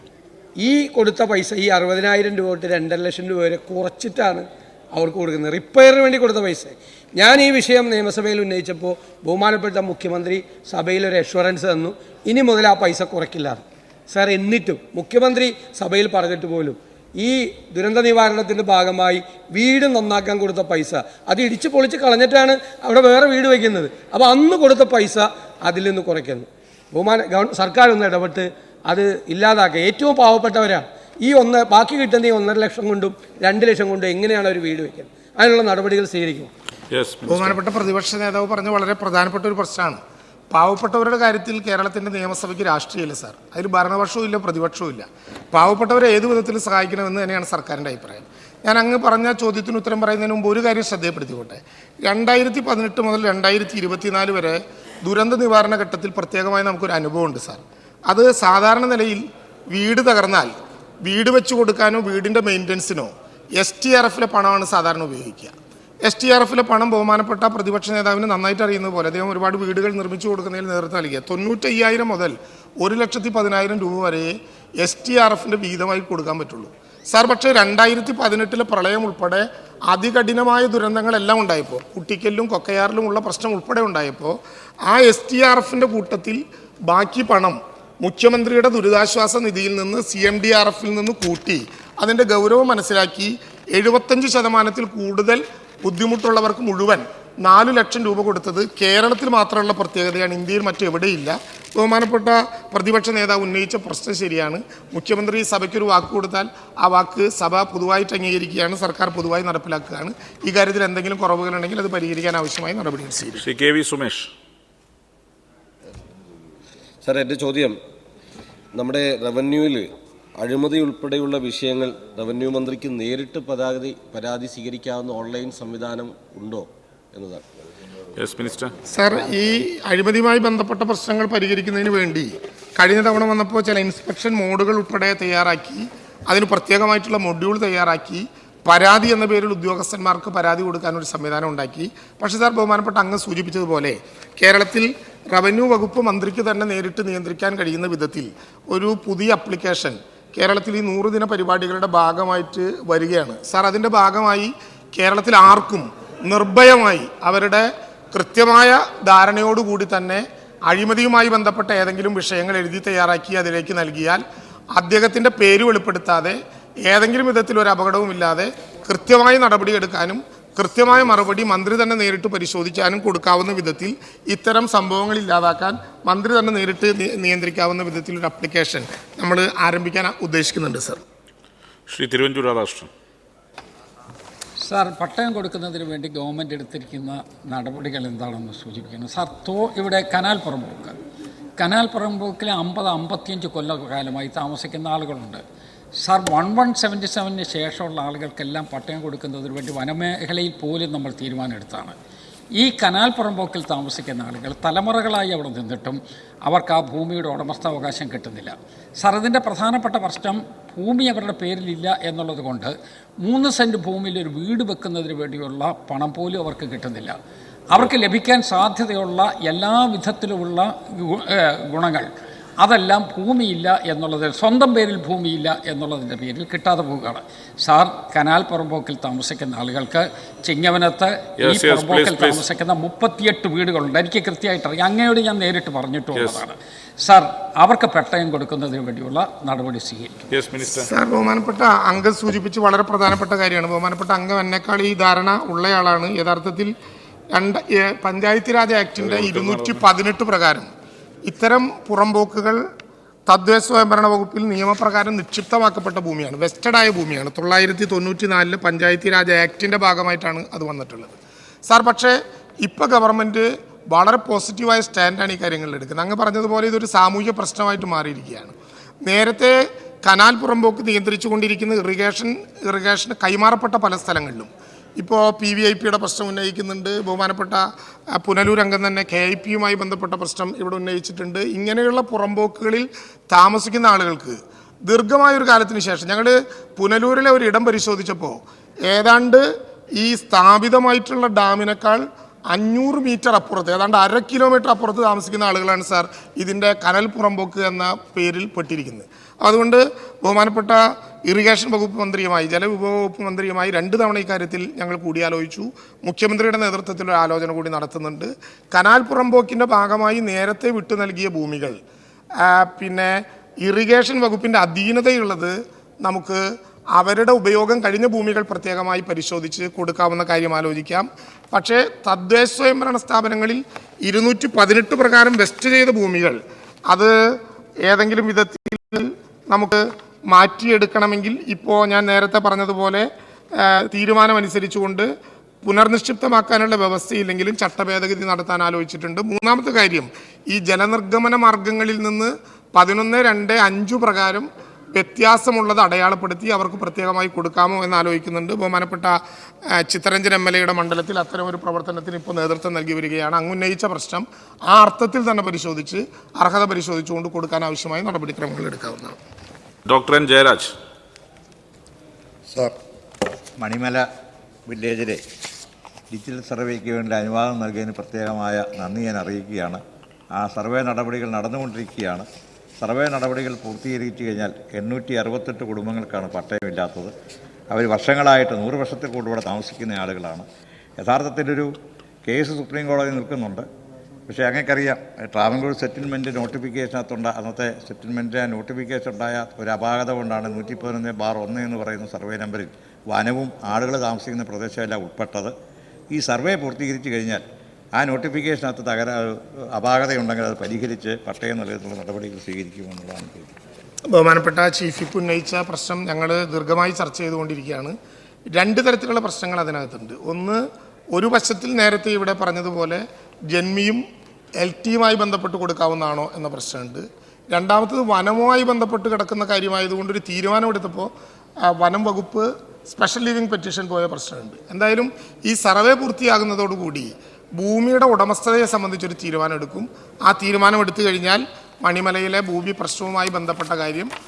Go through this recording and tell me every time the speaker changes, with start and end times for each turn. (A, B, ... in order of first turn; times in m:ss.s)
0:00.6-0:36.5 A
0:36.9-0:37.5 B
0:37.2-1:53.4 C
1:53.4-1:54.3 B
1:57.0-1:57.8 D
1:58.7-2:07.4 D
2:08.2-2:08.7 B
2:08.9-3:01.0 C
3:01.9-3:02.9 B
3:04.6-3:10.9 E
3:11.6-3:15.4 E
3:16.0-3:21.9 E
3:22.6-3:37.2 E
3:37.7-3:42.1 E
3:42.6-4:00.1 E
3:51.4-3:52.4 B
3:56.1-3:56.4 B
4:00.3-4:00.9 B
4:00.6-4:06.7 C
4:07.3-4:10.7 C
4:09.0-4:09.9 B
4:11.2-4:12.6 C
4:13.3-4:49.4 C
4:50.0-5:11.8 C
5:12.4-5:27.1 C
5:27.8-5:33.0 C
5:33.6-5:35.1 C
5:35.6-5:49.2 C
5:49.8-5:59.2 C
5:59.9-6:00.7 B
6:03.6-6:04.0 F
6:04.7-6:05.2 F
6:06.1-6:09.8 F
6:10.3-6:12.2 F
6:12.8-6:17.1 F
6:17.7-6:20.4 F
6:21.0-6:21.7 F
6:22.2-6:23.6 F
6:24.3-6:35.5 F
6:36.1-6:37.4 F
6:38.0-6:43.5 F
6:44.1-6:47.9 C
6:48.5-6:50.6 C
6:51.1-6:54.0 C
6:54.6-7:01.1 C
7:01.7-7:14.1 C